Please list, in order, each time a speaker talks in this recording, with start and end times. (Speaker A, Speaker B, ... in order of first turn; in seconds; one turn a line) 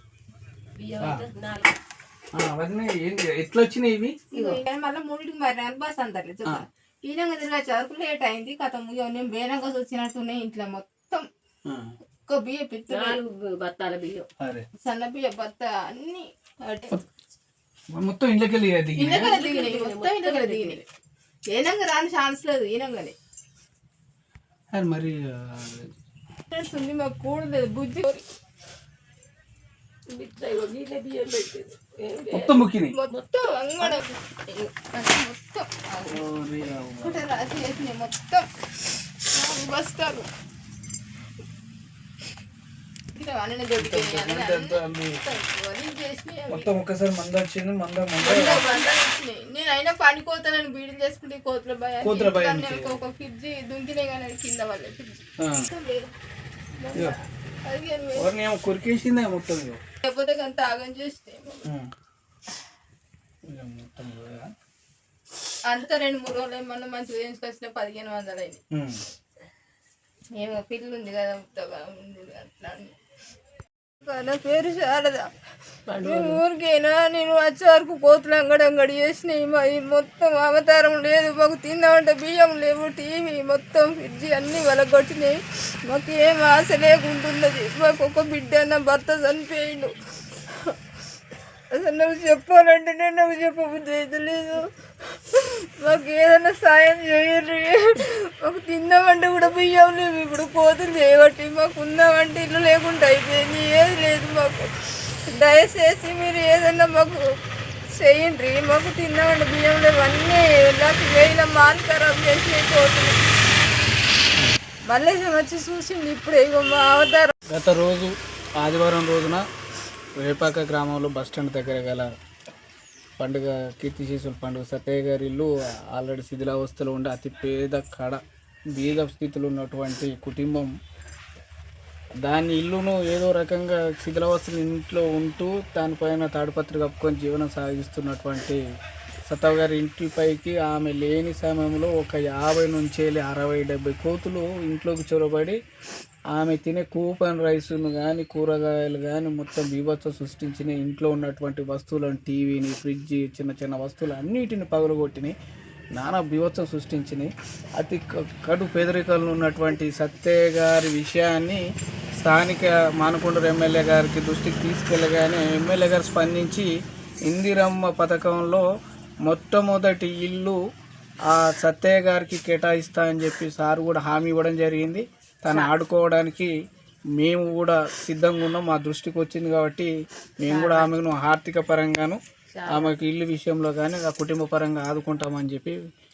Speaker A: 0.8-1.7
Speaker B: 1.0-1.2
Speaker B: 2.3-4.2
Speaker C: 4.3-11.3
Speaker A: 4.3-4.6
Speaker B: 11.7-11.9
Speaker C: 12.2-13.2
Speaker A: 12.9-14.3
Speaker B: 14.4-14.7
Speaker C: 14.8-17.0
Speaker B: 17.9-19.3
Speaker C: 18.9-20.8
Speaker A: 19.1-20.8
Speaker C: 21.5-23.1
Speaker B: 24.7-25.9
Speaker C: 26.5-28.2
Speaker A: 30.1-33.2
Speaker B: 32.3-33.0
Speaker C: 32.9-36.2
Speaker B: 36.1-37.2
Speaker C: 37.0-38.5
Speaker C: 39.3-40.3
Speaker C: 43.1-46.7
Speaker B: 43.8-45.2
Speaker B: 46.5-48.6
Speaker A: 48.2-48.9
Speaker C: 48.2-56.1
Speaker B: 52.0-53.0
Speaker B: 55.4-55.7
Speaker C: 56.8-58.3
Speaker B: 58.1-59.8
Speaker C: 60.0-61.7
Speaker B: 63.5-64.5
Speaker C: 65.7-68.6
Speaker B: 68.7-69.0
Speaker C: 70.4-72.9
Speaker C: 74.0-75.3
Speaker A: 75.9-76.4
Speaker C: 76.0-89.9
Speaker C: 90.5-90.7
Speaker C: 91.7-107.2
Speaker C: 107.9-113.2
Speaker C: 114.9-117.3
Speaker B: 117.5-119.4
Speaker B: 120.2-122.1
Speaker B: 123.2-128.2
Speaker B: 128.7-130.7
Speaker B: 132.2-138.6
Speaker B: 139.3-145.6
Speaker B: 146.3-155.3
Speaker B: 155.9-161.6
Speaker B: 162.2-166.7
Speaker B: 167.3-168.7
Speaker B: 169.2-170.6
Speaker B: 171.3-176.5
Speaker A: 175.5-175.7
Speaker B: 177.2-185.8
Speaker A: 180.5-180.9
Speaker A: 182.5-183.0